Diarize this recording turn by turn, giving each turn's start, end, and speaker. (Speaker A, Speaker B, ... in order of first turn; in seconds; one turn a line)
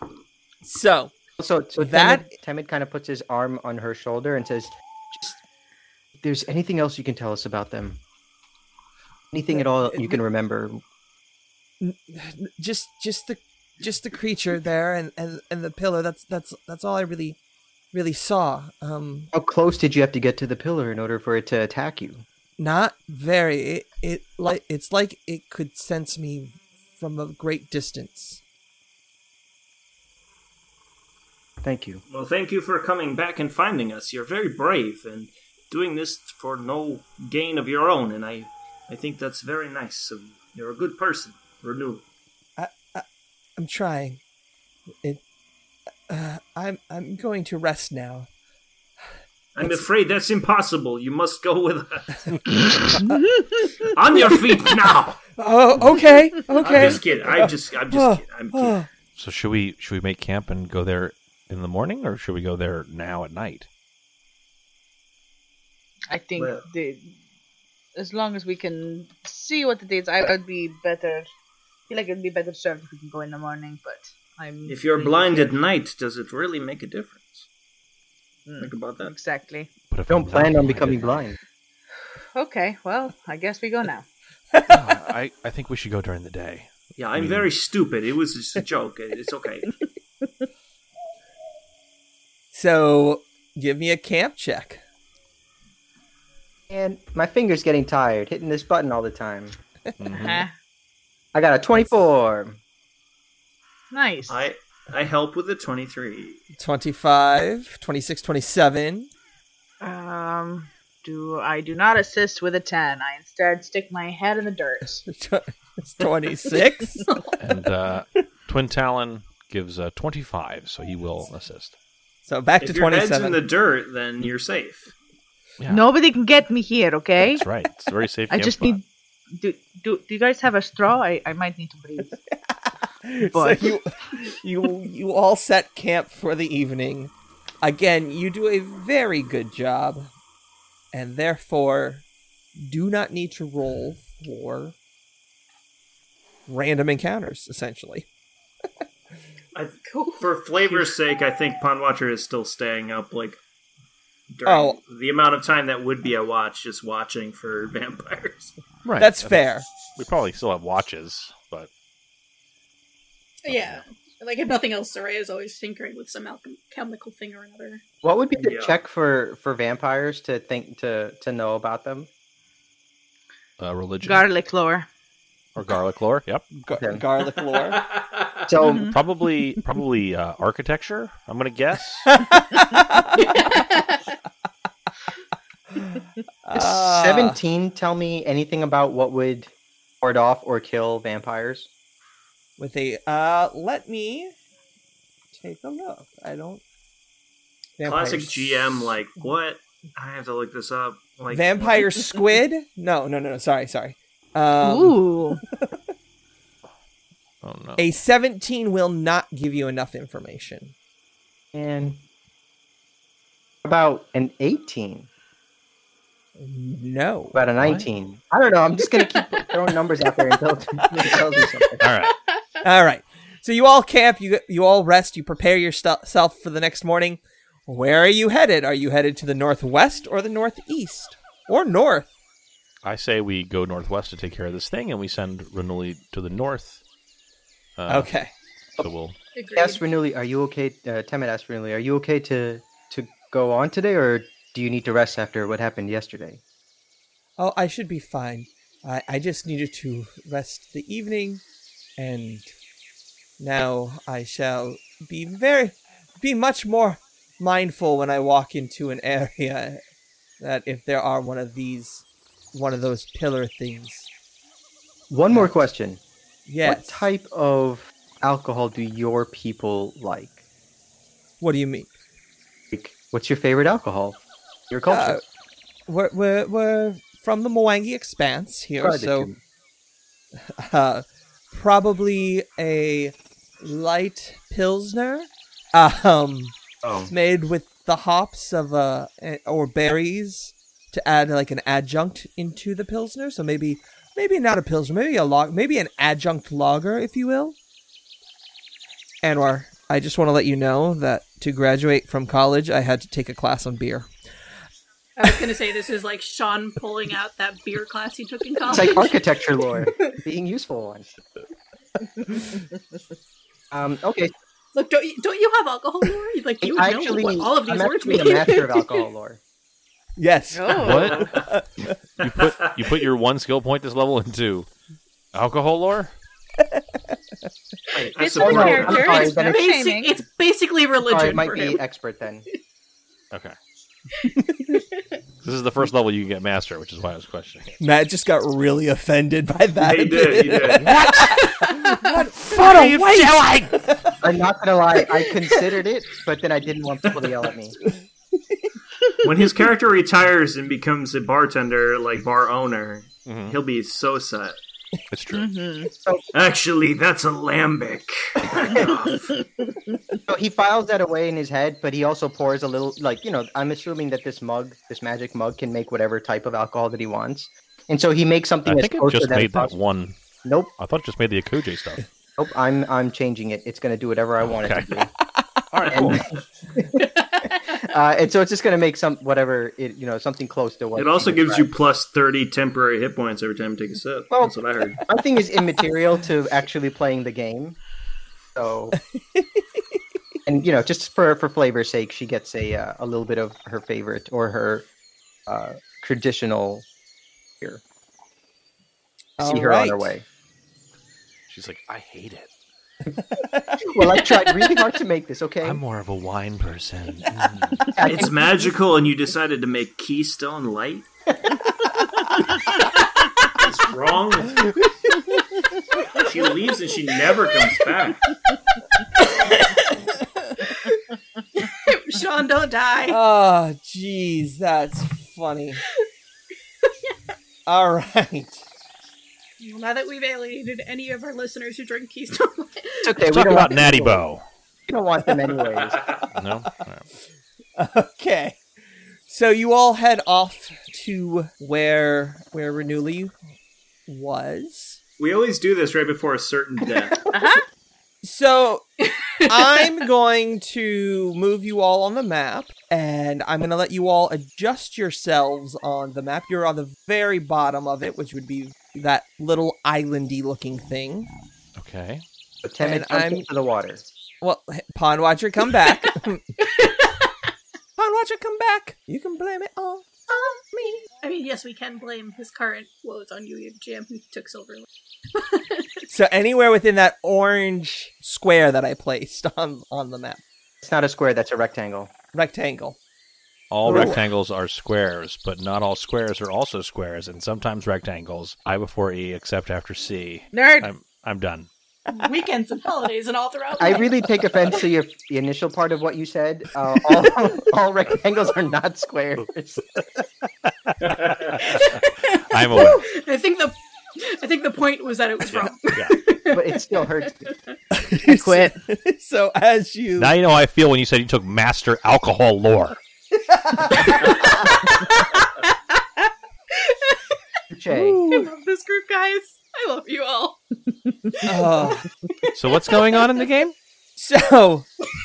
Speaker A: 0.6-1.1
Speaker B: 1.4-5.4
Speaker A: 1.8-2.3
Speaker B: 6.2-8.0
Speaker B: 9.3-10.8
Speaker A: 9.5-10.2
Speaker A: 11.8-17.4
Speaker A: 17.9-19.3
Speaker B: 19.3-22.2
Speaker A: 22.6-28.4
Speaker B: 31.6-32.0
Speaker C: 32.1-42.0
Speaker A: 42.6-43.0
Speaker A: 43.6-44.2
Speaker A: 46.1-48.3
Speaker C: 49.5-52.3
Speaker D: 53.0-53.9
Speaker C: 53.9-55.2
Speaker A: 55.4-58.9
Speaker C: 56.6-58.8
Speaker E: 59.1-63.7
Speaker D: 66.1-67.1
Speaker C: 66.3-66.7
Speaker D: 68.0-71.3
Speaker D: 71.9-75.5
Speaker C: 74.7-77.5
Speaker D: 78.5-79.7
Speaker C: 78.6-79.1
Speaker E: 79.9-81.3
Speaker B: 80.1-81.4
Speaker D: 82.3-84.0
Speaker A: 84.5-84.8
Speaker E: 84.7-87.5
Speaker C: 87.0-89.7
Speaker A: 92.5-94.8
Speaker B: 96.7-99.5
Speaker E: 100.0-100.5
Speaker D: 100.1-100.5
Speaker B: 101.3-102.6
Speaker D: 103.9-104.5
Speaker C: 104.3-106.4
Speaker A: 106.5-109.1
Speaker D: 109.8-115.0
Speaker A: 115.0-117.1
Speaker F: 117.1-117.3
Speaker E: 117.4-121.7
Speaker A: 122.2-123.4
Speaker C: 122.6-124.9
Speaker E: 125.6-125.8
Speaker D: 125.7-127.5
Speaker E: 127.2-128.8
Speaker D: 128.3-132.2
Speaker A: 132.5-137.1
Speaker D: 133.3-133.7
Speaker A: 137.6-140.1
Speaker A: 140.9-142.0
Speaker A: 142.6-144.8
Speaker A: 146.5-148.1
Speaker C: 149.5-153.4
Speaker F: 149.9-150.8
Speaker C: 154.3-158.5
Speaker A: 154.4-154.8
Speaker E: 158.8-161.7
Speaker A: 159.0-159.6
Speaker F: 163.4-167.8
Speaker E: 163.5-163.8
Speaker B: 168.0-172.1
Speaker C: 168.4-168.8
Speaker E: 173.6-174.3
Speaker D: 174.0-174.9
Speaker E: 175.5-176.6
Speaker A: 176.6-177.8
Speaker B: 176.7-177.0
Speaker C: 177.4-178.5
Speaker B: 178.5-178.9
Speaker D: 178.6-179.0
Speaker E: 178.9-182.1
Speaker A: 182.1-183.4
Speaker F: 183.2-184.0
Speaker A: 186.4-187.4
Speaker B: 186.5-191.7
Speaker A: 192.6-194.3
Speaker A: 195.3-196.6
Speaker A: 197.8-198.8
Speaker C: 197.8-202.1
Speaker A: 201.3-205.8
Speaker D: 204.6-205.4
Speaker E: 207.4-207.8
Speaker A: 207.8-210.7
Speaker B: 211.5-212.0
Speaker B: 213.6-215.1
Speaker A: 216.4-217.4
Speaker B: 217.3-221.8
Speaker E: 217.6-217.9
Speaker E: 221.8-222.2
Speaker A: 222.6-232.1
Speaker E: 232.8-236.8
Speaker E: 237.8-238.1
Speaker A: 237.9-238.3
Speaker E: 238.8-239.2
Speaker F: 239.3-239.8
Speaker B: 239.5-246.4
Speaker A: 247.4-251.4
Speaker A: 252.0-252.5
Speaker A: 253.4-259.8
Speaker A: 260.4-264.1
Speaker B: 265.1-266.0
Speaker A: 265.3-265.6
Speaker A: 266.5-267.1
Speaker B: 266.6-270.4
Speaker A: 271.4-271.9
Speaker B: 272.7-275.2
Speaker A: 274.9-275.2
Speaker A: 275.9-279.3
Speaker B: 278.8-279.4
Speaker A: 280.4-286.5
Speaker B: 286.8-287.1
Speaker A: 287.1-297.6
Speaker A: 299.2-304.1
Speaker F: 305.2-309.3
Speaker B: 308.7-311.1
Speaker B: 313.7-314.3
Speaker F: 314.7-319.0
Speaker B: 316.6-319.4
Speaker A: 320.2-321.9
Speaker D: 320.5-321.3
Speaker E: 320.7-321.3
Speaker E: 322.2-324.7
Speaker C: 322.3-322.9
Speaker E: 325.3-326.1
Speaker C: 328.0-329.2
Speaker B: 328.0-329.6
Speaker D: 328.1-330.2
Speaker F: 329.0-331.8
Speaker B: 331.0-332.4
Speaker E: 335.4-337.8
Speaker A: 337.8-344.1
Speaker C: 339.8-341.0
Speaker E: 340.8-343.8
Speaker B: 344.2-347.8
Speaker C: 349.2-354.6
Speaker E: 353.2-353.6
Speaker E: 355.1-355.5
Speaker D: 355.3-355.9
Speaker C: 356.3-359.3
Speaker B: 360.3-369.7
Speaker E: 368.6-370.1
Speaker B: 370.4-370.7
Speaker E: 370.8-372.0
Speaker B: 372.4-375.1
Speaker E: 374.4-374.9
Speaker E: 375.7-376.3
Speaker B: 375.9-377.1
Speaker B: 377.7-381.7
Speaker C: 380.9-385.0
Speaker B: 384.3-387.8
Speaker B: 388.5-389.0
Speaker A: 389.1-389.8
Speaker B: 390.4-394.9
Speaker B: 395.5-396.9
Speaker A: 399.4-400.1
Speaker B: 399.4-400.2
Speaker E: 401.5-402.5
Speaker A: 403.2-404.0
Speaker B: 403.8-405.8
Speaker E: 405.6-408.0
Speaker B: 407.9-408.4
Speaker C: 408.0-411.1
Speaker C: 413.5-414.8
Speaker C: 416.1-418.3
Speaker F: 419.4-419.9
Speaker F: 421.7-423.2
Speaker A: 423.1-425.8
Speaker F: 426.8-427.1
Speaker A: 427.7-428.6
Speaker F: 429.6-433.2
Speaker B: 433.0-434.2
Speaker E: 433.2-434.4
Speaker B: 434.9-436.0
Speaker C: 435.6-436.2
Speaker E: 436.3-437.1
Speaker A: 437.8-438.6
Speaker A: 439.3-443.3
Speaker A: 444.1-445.0
Speaker C: 445.2-447.2
Speaker D: 447.3-447.6
Speaker A: 448.2-448.9
Speaker F: 449.4-449.8
Speaker A: 449.4-461.3
Speaker E: 461.8-462.2
Speaker B: 462.6-464.0
Speaker A: 462.8-463.4
Speaker A: 464.4-466.4
Speaker F: 466.8-467.2
Speaker A: 468.0-470.1
Speaker F: 470.3-476.0
Speaker A: 476.1-480.4
Speaker B: 480.8-482.1
Speaker A: 482.3-483.0
Speaker E: 483.7-491.7
Speaker A: 483.8-484.2
Speaker B: 483.9-484.1
Speaker D: 490.5-490.9
Speaker F: 492.1-494.1
Speaker B: 493.8-499.8
Speaker E: 500.9-502.0
Speaker C: 501.0-501.6
Speaker F: 501.6-507.5
Speaker E: 502.5-503.0
Speaker E: 505.5-506.2
Speaker B: 506.5-507.5
Speaker A: 507.9-510.4
Speaker D: 508.2-508.8
Speaker E: 510.2-513.0
Speaker A: 513.5-514.3
Speaker F: 514.2-515.2
Speaker F: 516.8-517.2
Speaker B: 517.7-518.2
Speaker A: 518.2-518.5
Speaker F: 518.3-520.6
Speaker A: 521.5-522.0
Speaker E: 522.5-523.7
Speaker F: 522.7-523.2
Speaker A: 524.1-524.9